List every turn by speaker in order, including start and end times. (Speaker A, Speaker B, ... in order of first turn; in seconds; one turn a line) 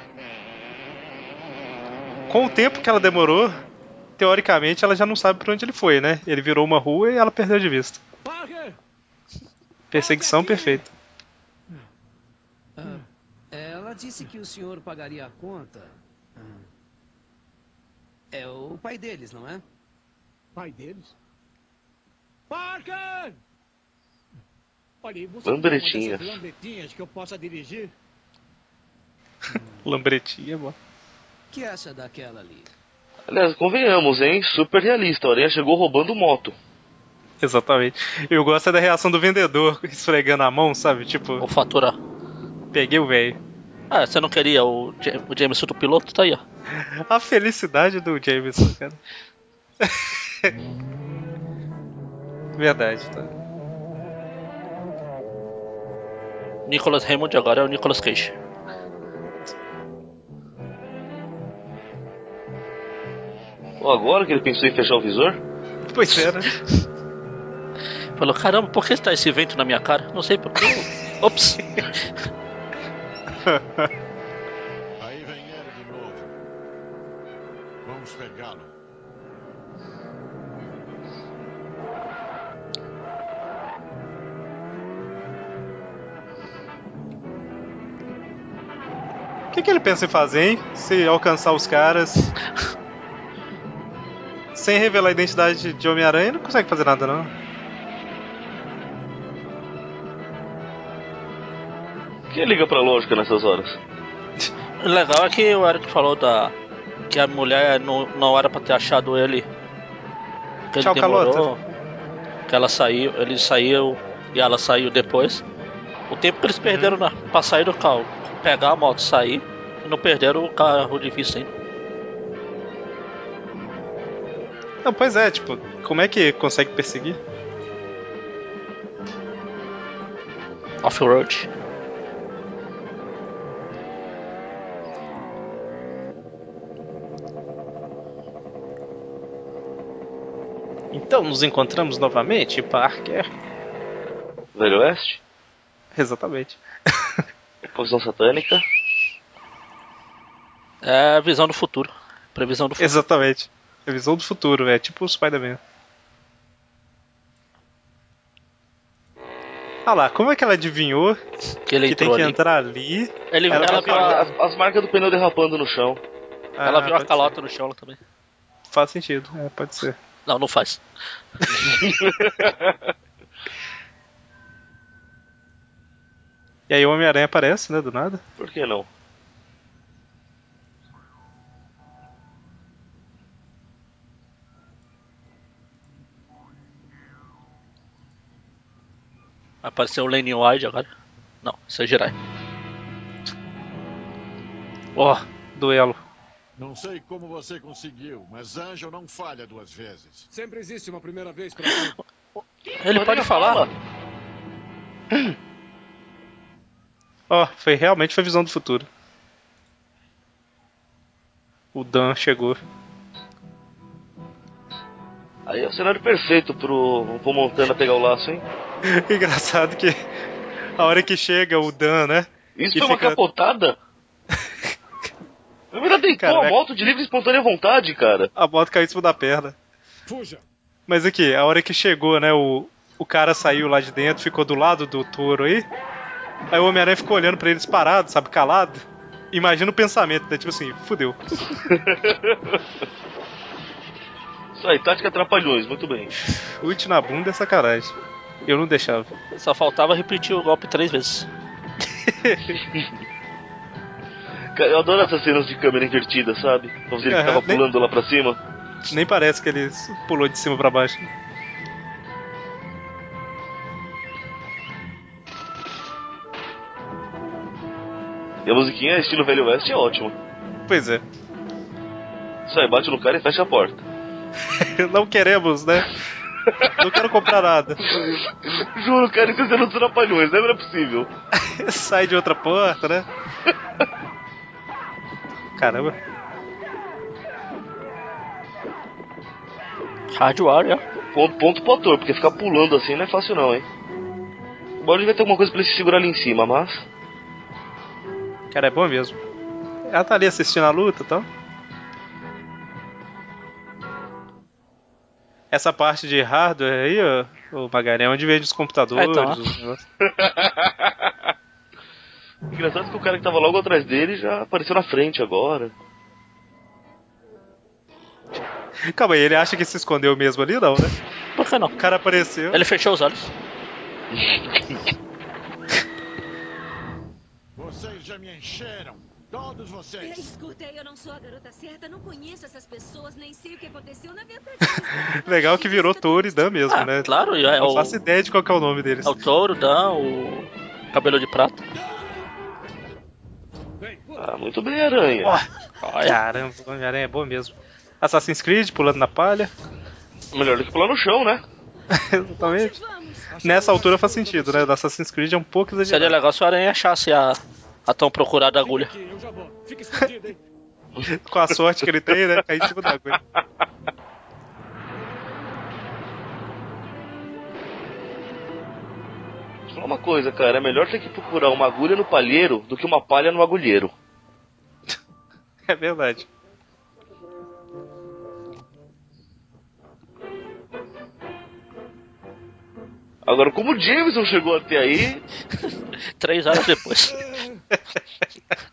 Speaker A: 2.3-3.6
Speaker A: 4.2-8.0
Speaker B: 8.2-8.8
Speaker A: 9.9-10.9
Speaker B: 9.9-10.8
Speaker B: 12.8-16.6
Speaker C: 18.4-18.7
Speaker B: 18.4-19.6
Speaker C: 20.6-21.1
Speaker C: 22.5-23.4
Speaker C: 25.0-27.9
Speaker D: 25.4-26.4
Speaker A: 29.8-30.8
Speaker B: 31.5-32.7
Speaker D: 33.3-36.5
Speaker A: 37.4-41.4
Speaker E: 41.4-42.0
Speaker A: 42.7-43.4
Speaker E: 43.9-46.4
Speaker A: 46.7-49.0
Speaker A: 49.8-50.5
Speaker A: 52.6-53.3
Speaker E: 56.7-58.3
Speaker D: 63.8-65.4
Speaker A: 65.9-66.6
Speaker E: 68.2-71.7
Speaker A: 73.5-73.9
Speaker F: 75.0-76.4
Speaker F: 77.8-78.7
Speaker A: 89.5-92.3
Speaker A: 94.6-97.3
Speaker D: 102.3-103.8
Speaker E: 104.8-106.5
Speaker E: 107.1-109.5
Speaker E: 110.7-111.5
Speaker A: 110.8-111.6
Speaker E: 112.5-115.4
Speaker E: 116.1-121.5
Speaker A: 116.7-117.0
Speaker A: 124.8-127.2
Speaker E: 130.8-131.5
Speaker A: 140.9-143.3
Speaker D: 144.6-145.2
Speaker A: 145.9-147.2
Speaker D: 147.7-148.6
Speaker E: 150.8-153.0
Speaker A: 152.8-155.6
Speaker A: 159.9-161.2
Speaker E: 161.7-162.4
Speaker A: 161.8-164.2
Speaker E: 163.3-164.3
Speaker D: 163.5-166.0
Speaker A: 166.6-167.3
Speaker E: 166.6-168.0
Speaker A: 168.7-170.0
Speaker E: 170.3-170.8
Speaker D: 171.6-172.9
Speaker A: 176.7-178.2
Speaker D: 178.4-178.9
Speaker E: 189.6-190.9
Speaker E: 191.4-192.2
Speaker A: 195.0-196.0
Speaker F: 196.6-200.3
Speaker B: 200.3-202.0
Speaker E: 202.4-203.7
Speaker D: 202.9-203.7
Speaker A: 207.3-208.9
Speaker A: 211.7-212.6
Speaker D: 215.5-218.4
Speaker A: 218.8-220.0
Speaker A: 220.8-223.2
Speaker D: 222.6-223.8
Speaker D: 225.7-228.3
Speaker A: 226.2-226.6
Speaker A: 228.4-229.6
Speaker B: 230.1-230.4
Speaker A: 230.9-235.7
Speaker A: 236.5-241.2
Speaker D: 241.7-242.6
Speaker D: 244.6-246.2
Speaker A: 246.6-247.9
Speaker A: 248.5-249.1
Speaker E: 249.3-251.3
Speaker A: 252.0-252.6
Speaker D: 254.6-258.4
Speaker A: 257.1-257.6
Speaker A: 258.9-261.1
Speaker D: 268.5-270.1
Speaker A: 270.7-271.0
Speaker D: 272.5-273.8
Speaker A: 274.5-276.0
Speaker D: 276.4-277.0
Speaker A: 276.8-277.8
Speaker D: 277.8-281.1
Speaker A: 281.4-283.1
Speaker A: 285.6-286.0
Speaker E: 290.1-290.8
Speaker D: 291.1-293.7
Speaker D: 294.8-296.8
Speaker A: 298.5-299.2
Speaker A: 299.9-301.3
Speaker A: 305.5-309.8
Speaker E: 308.9-309.5
Speaker D: 310.0-310.9
Speaker D: 312.5-315.7
Speaker A: 318.8-320.9
Speaker E: 321.4-321.8
Speaker A: 321.8-322.6
Speaker E: 322.5-323.3
Speaker D: 324.1-324.8
Speaker F: 327.6-330.3
Speaker G: 330.0-336.6
Speaker A: 335.0-339.2
Speaker E: 336.7-338.0
Speaker E: 339.1-341.6
Speaker B: 343.8-344.3
Speaker D: 344.2-345.4
Speaker E: 345.8-346.2
Speaker A: 346.0-349.5
Speaker D: 350.3-351.4
Speaker G: 351.9-353.8
Speaker A: 351.9-352.8
Speaker B: 353.3-354.7
Speaker A: 353.4-356.2
Speaker E: 355.9-358.9
Speaker B: 358.4-360.4
Speaker A: 361.2-363.2
Speaker D: 361.9-363.2
Speaker D: 369.7-373.9
Speaker A: 375.7-376.3
Speaker D: 383.3-385.2
Speaker E: 386.2-387.2